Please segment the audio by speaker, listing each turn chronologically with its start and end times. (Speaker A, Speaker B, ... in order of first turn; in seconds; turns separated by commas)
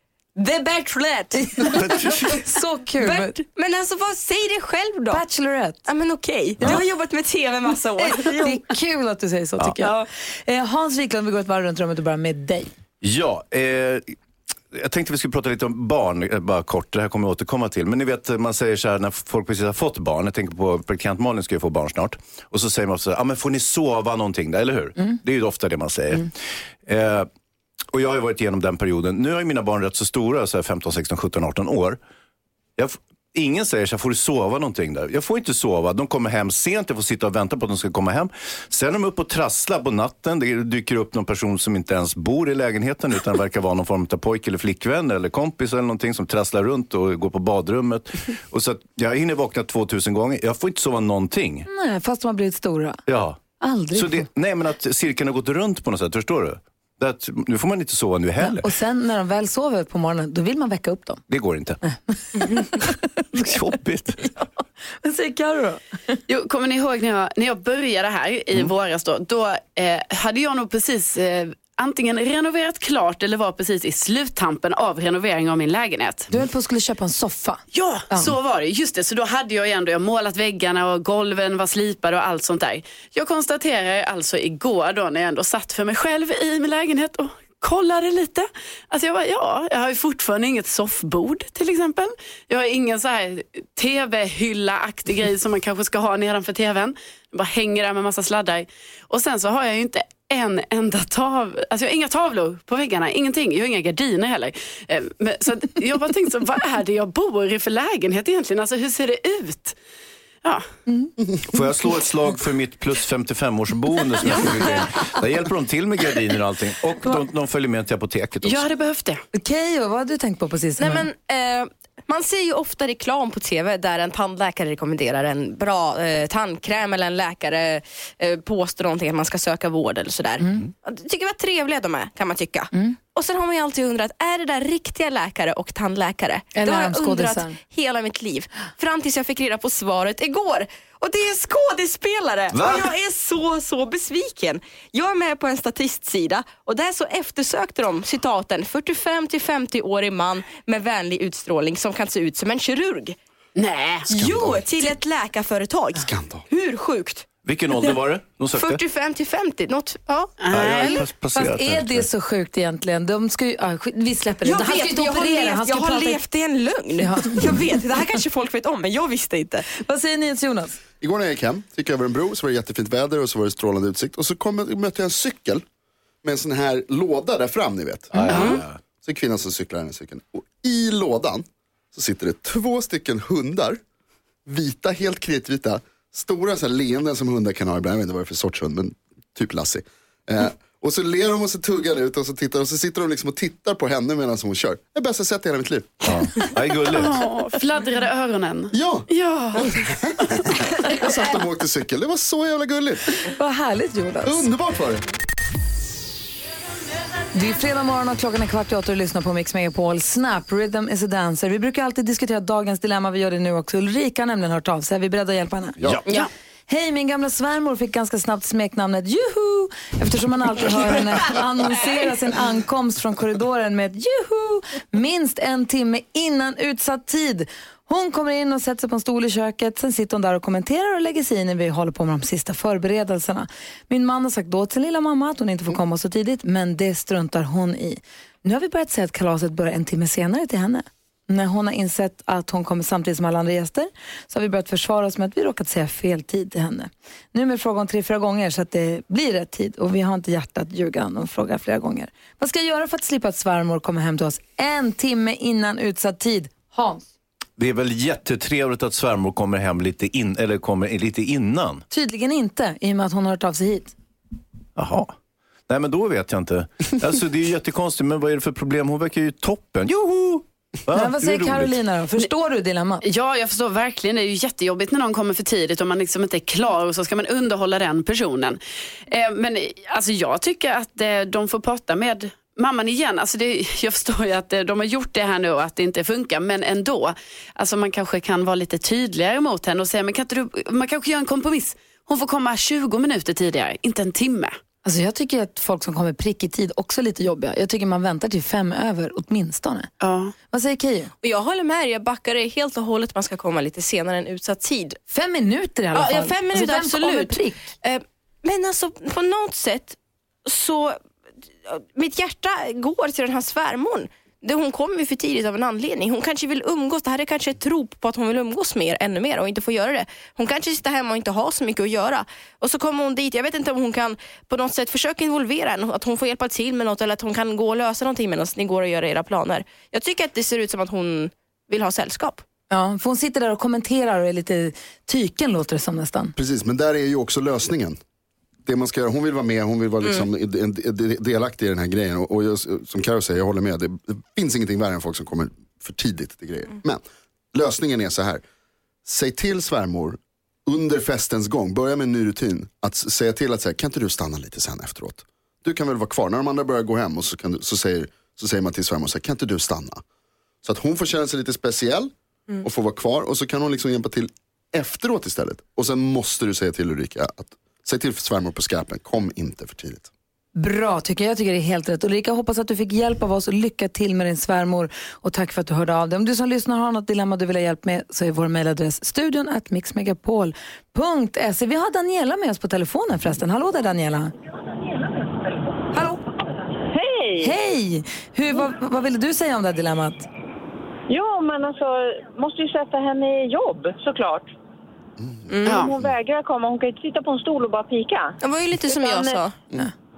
Speaker A: 0.3-2.4, Speaker B: 1.3-3.4, Speaker C: 1.7-2.4, Speaker A: 3.0-5.2, Speaker B: 5.1-5.8, Speaker A: 5.8-8.7, Speaker B: 8.0-12.7, Speaker A: 9.8-10.1, Speaker C: 13.0-14.2, Speaker C: 14.7-26.3, Speaker C: 26.9-27.3, Speaker C: 27.9-32.0, Speaker C: 32.8-51.7, Speaker B: 51.7-53.0, Speaker C: 53.1-53.4, Speaker B: 53.6-54.3, Speaker C: 53.9-58.6, Speaker B: 58.4-61.2, Speaker C: 61.3-61.8, Speaker B: 61.8-63.0, Speaker C: 63.3-64.3, Speaker B: 65.0-66.2, Speaker D: 66.3-76.3, Speaker B: 76.3-78.3, Speaker D: 77.7-109.8, Speaker B: 110.9-111.1, Speaker C: 111.5-118.6, Speaker D: 114.3-114.6, Speaker D: 118.4-119.2, Speaker B: 119.3-121.1, Speaker A: 120.8-153.2, Speaker B: 130.4-130.7, Speaker B: 132.7-133.0, Speaker B: 136.5-137.6, Speaker C: 142.5-142.9, Speaker D: 153.6-154.1, Speaker A: 154.1-157.3, Speaker E: 154.1-154.6, Speaker C: 154.2-154.5, Speaker E: 155.9-156.4, Speaker C: 157.4-158.8, Speaker A: 158.5-160.4, Speaker D: 160.4-161.0, Speaker C: 160.5-162.1, Speaker B: 160.6-166.2, Speaker A: 164.4-169.7, Speaker B: 167.0-167.6, Speaker B: 169.7-170.8, Speaker E: 171.0-175.6, Speaker E: 176.2-183.8, Speaker C: 178.1-178.8, Speaker A: 178.3-178.6, Speaker E: 184.5-196.4, Speaker C: 196.0-197.2, Speaker D: 196.9-201.0, Speaker E: 198.7-203.1, Speaker B: 203.2-204.5, Speaker E: 204.2-205.1, Speaker B: 207.3-215.8, Speaker B: 216.7-257.1, Speaker C: 257.6-261.8, Speaker B: 261.9-263.9, Speaker C: 264.8-265.1, Speaker C: 265.7-271.8, Speaker B: 270.9-273.0, Speaker D: 273.0-294.6, Speaker B: 294.8-299.9, Speaker D: 300.0-300.3, Speaker B: 300.5-301.1, Speaker A: 301.2-305.0, Speaker B: 305.1-307.7, Speaker A: 305.9-311.0, Speaker A: 311.6-332.4, Speaker B: 332.7-336.3, Speaker E: 336.4-338.0, Speaker E: 338.6-347.0, Speaker A: 340.0-340.3, Speaker E: 347.5-348.4, Speaker E: 349.1-360.0, Speaker E: 360.6-362.1, Speaker E: 362.6-370.1, Speaker B: 370.6-384.3, Speaker B: 385.9-386.2, Speaker F: 386.9-387.5, Speaker B: 387.4-390.3, Speaker F: 391.1-394.5, Speaker A: 395.5-395.8, Speaker D: 395.6-395.9, Speaker F: 395.7-399.4, Speaker A: 398.4-399.6